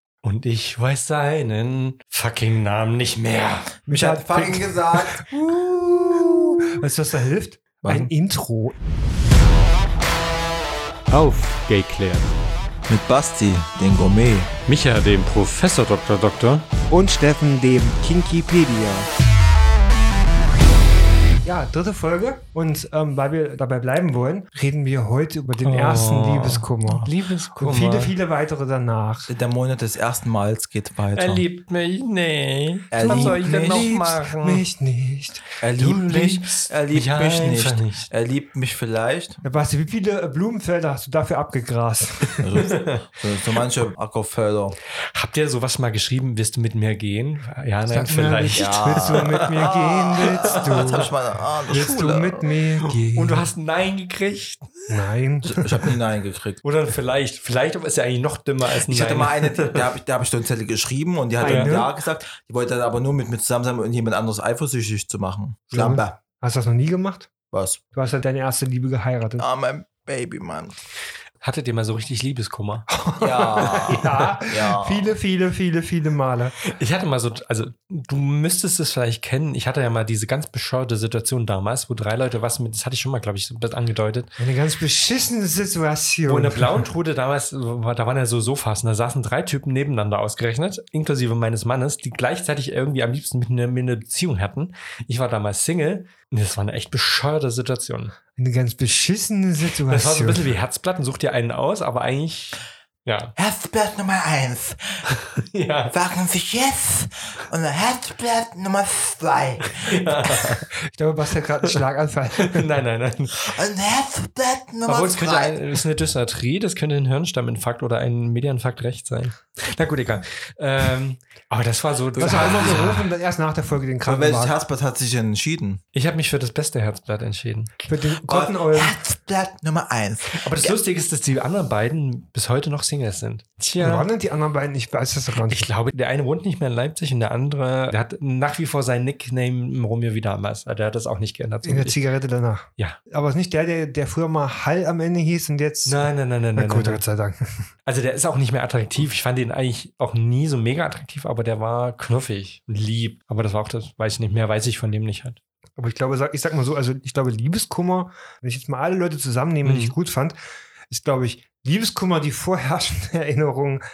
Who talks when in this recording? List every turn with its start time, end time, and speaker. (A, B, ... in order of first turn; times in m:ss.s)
0:00.2-0:03.8 A
0:03.9-0:05.3 B
0:03.9-0:06.8 C
0:05.9-0:08.8 B
0:07.8-0:08.1 C
0:11.1-0:12.3 A
0:12.9-0:14.5 C
0:14.7-0:16.7 A
0:16.9-0:19.1 B
0:21.4-0:29.3 B
0:25.6-0:28.1 A
0:29.3-0:31.4 C
0:31.1-0:34.6 A
0:32.9-0:33.9 C
0:33.0-0:35.4 B
0:35.6-0:39.4 C
0:35.8-0:38.1 A
0:39.4-0:42.5 B
0:42.4-0:44.8 C
0:42.6-0:43.0 A
0:45.1-0:49.7 A
0:47.9-0:51.1 B
0:48.5-0:52.5 C
0:50.2-0:51.1 A
0:51.7-0:53.5 B
0:52.9-0:54.9 A
0:54.9-0:55.7 B
0:55.4-0:56.6 C
0:56.6-0:59.9 A
0:58.8-1:06.2 C
1:01.4-1:01.9 B
1:01.4-1:01.8 A
1:05.7-1:07.3 B
1:07.5-1:07.8 C
1:07.9-1:09.4 B
1:09.4-1:10.7 C
1:11.4-1:12.9 A
1:12.9-1:16.6 B
1:13.2-1:15.1 C
1:13.7-1:14.3 A
1:16.6-1:24.3 A
1:24.4-1:26.8 B
1:26.3-1:38.1 A
1:38.4-1:40.5 B
1:39.9-1:43.3 A
1:43.4-1:45.1 C
1:45.1-1:45.9 A
1:45.9-1:50.6 C
1:49.7-1:50.7 A
1:50.9-1:52.7 B
1:52.4-1:53.4 A
1:53.4-1:55.8 C
1:54.9-2:03.1 A
2:02.1-2:02.9 C
2:02.2-2:04.6 B
2:04.0-2:05.8 C
2:05.9-2:07.8 A
2:07.9-2:09.0 B
2:08.2-2:10.8 C
2:10.3-2:14.1 A
2:13.8-2:15.7 B
2:15.4-2:22.0 A
2:21.6-2:27.4 B
2:25.8-2:27.0 A
2:27.8-2:35.4 A
2:35.8-2:40.4 B
2:39.6-2:39.9 A
2:40.9-2:43.8 B